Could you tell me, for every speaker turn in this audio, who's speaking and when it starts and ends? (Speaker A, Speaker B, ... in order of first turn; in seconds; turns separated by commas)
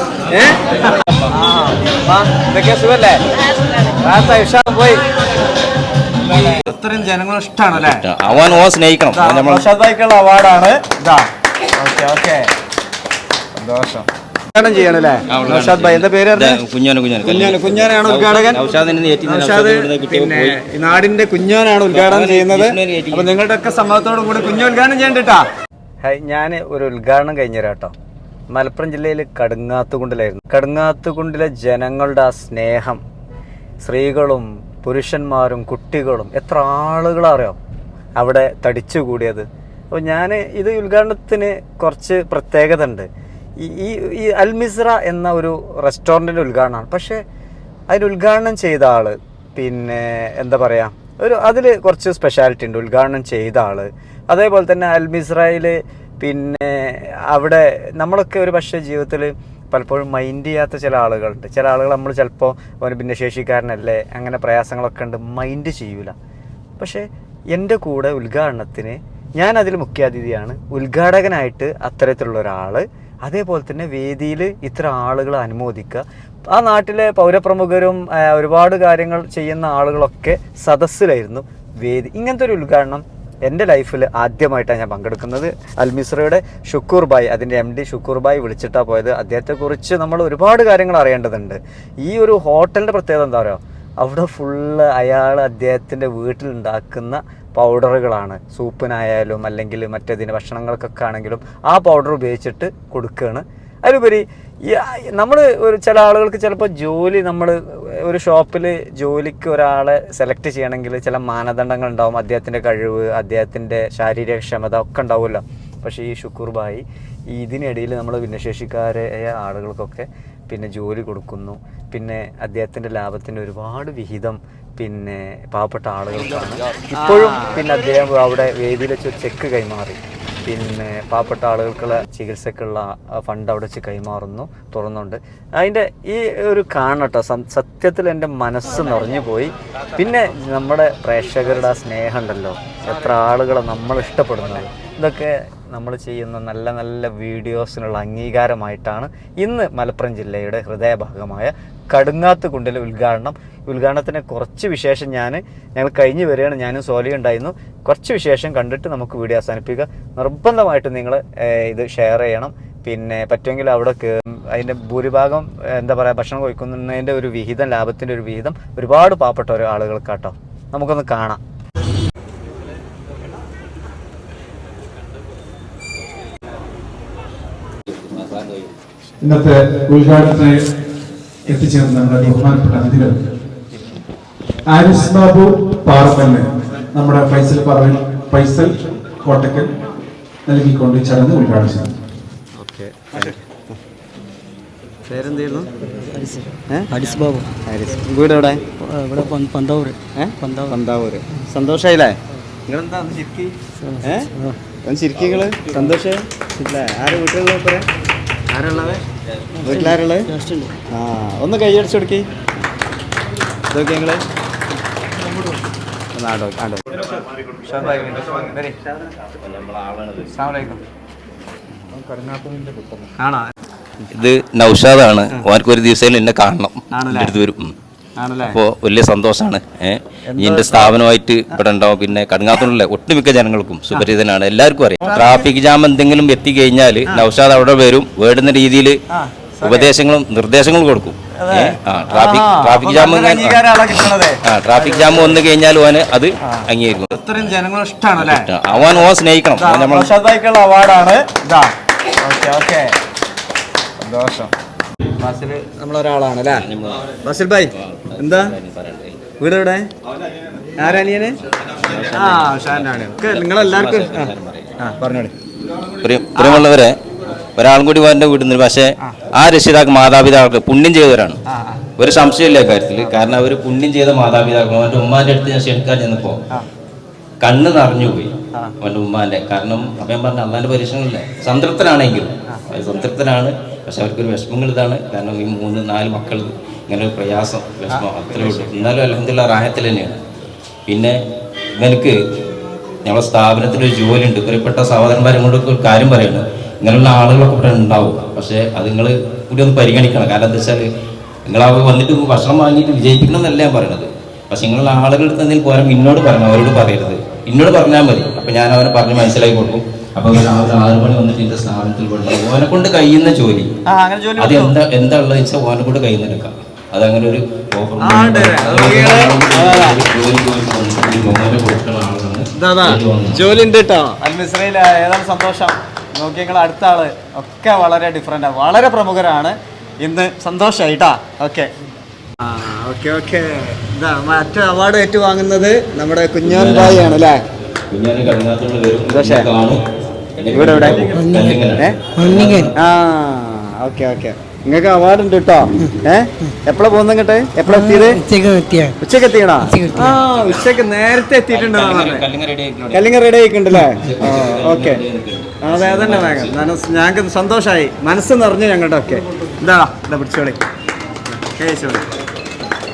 Speaker A: 0.3-3.2, Speaker A: 4.0-5.0, Speaker A: 6.2-11.2, Speaker B: 7.7-9.7, Speaker A: 11.8-12.5, Speaker A: 13.5-16.6, Speaker B: 15.3-20.6, Speaker A: 17.2-18.6, Speaker A: 19.2-25.4, Speaker B: 21.9-23.3, Speaker A: 26.0-27.9, Speaker A: 28.5-33.0, Speaker A: 33.8-37.6, Speaker A: 38.2-43.1, Speaker A: 43.6-47.2, Speaker A: 47.9-66.1, Speaker A: 66.8-171.4, Speaker B: 178.0-178.7, Speaker C: 179.2-180.6, Speaker C: 181.4-183.2, Speaker C: 184.7-189.8, Speaker C: 190.4-191.9, Speaker A: 192.6-193.6, Speaker A: 195.1-195.7, Speaker D: 195.8-197.5, Speaker A: 197.7-198.6, Speaker D: 198.7-200.8, Speaker A: 200.2-202.2, Speaker A: 202.7-204.3, Speaker D: 203.8-204.6, Speaker A: 204.8-207.8, Speaker A: 208.5-209.0, Speaker D: 209.6-210.7, Speaker A: 209.6-210.3, Speaker A: 210.9-212.2, Speaker A: 213.7-214.2, Speaker A: 216.1-216.8, Speaker A: 217.6-218.8, Speaker B: 219.4-220.3, Speaker A: 220.3-220.8, Speaker C: 222.0-223.1, Speaker A: 223.2-223.5, Speaker B: 224.1-227.7, Speaker A: 226.9-227.3, Speaker A: 228.2-228.6, Speaker B: 228.4-239.0, Speaker A: 230.3-231.0, Speaker A: 235.0-235.4, Speaker A: 239.1-239.9, Speaker B: 239.6-247.4, Speaker A: 241.3-245.4, Speaker A: 246.4-252.9, Speaker B: 248.2-250.1, Speaker A: 254.0-254.5, Speaker A: 255.2-256.6, Speaker B: 256.5-257.1, Speaker A: 257.2-258.5, Speaker B: 257.8-259.2, Speaker A: 259.4-259.9, Speaker A: 260.8-261.4, Speaker B: 261.8-264.7, Speaker A: 262.1-265.3, Speaker B: 266.0-267.0, Speaker A: 266.4-266.6, Speaker B: 267.6-271.4, Speaker A: 271.5-271.8, Speaker B: 272.0-276.4, Speaker A: 273.0-273.4, Speaker B: 277.4-290.2, Speaker A: 287.9-288.8, Speaker B: 290.9-291.2, Speaker B: 291.8-292.2, Speaker B: 293.0-300.9, Speaker B: 301.4-313.7, Speaker A: 313.9-314.8, Speaker B: 314.4-323.6, Speaker A: 318.0-320.0, Speaker A: 322.5-331.7, Speaker A: 332.4-337.4, Speaker B: 336.4-337.2, Speaker B: 337.9-339.8, Speaker A: 339.1-339.5, Speaker B: 340.4-342.7, Speaker A: 340.5-341.0, Speaker D: 341.1-341.6, Speaker D: 342.1-342.7, Speaker A: 342.8-348.2, Speaker D: 347.7-349.0, Speaker A: 349.0-352.3, Speaker D: 349.6-350.2, Speaker B: 350.1-350.7, Speaker B: 351.5-353.1, Speaker A: 352.9-355.0, Speaker B: 354.0-356.7, Speaker A: 355.6-360.6, Speaker A: 361.4-362.0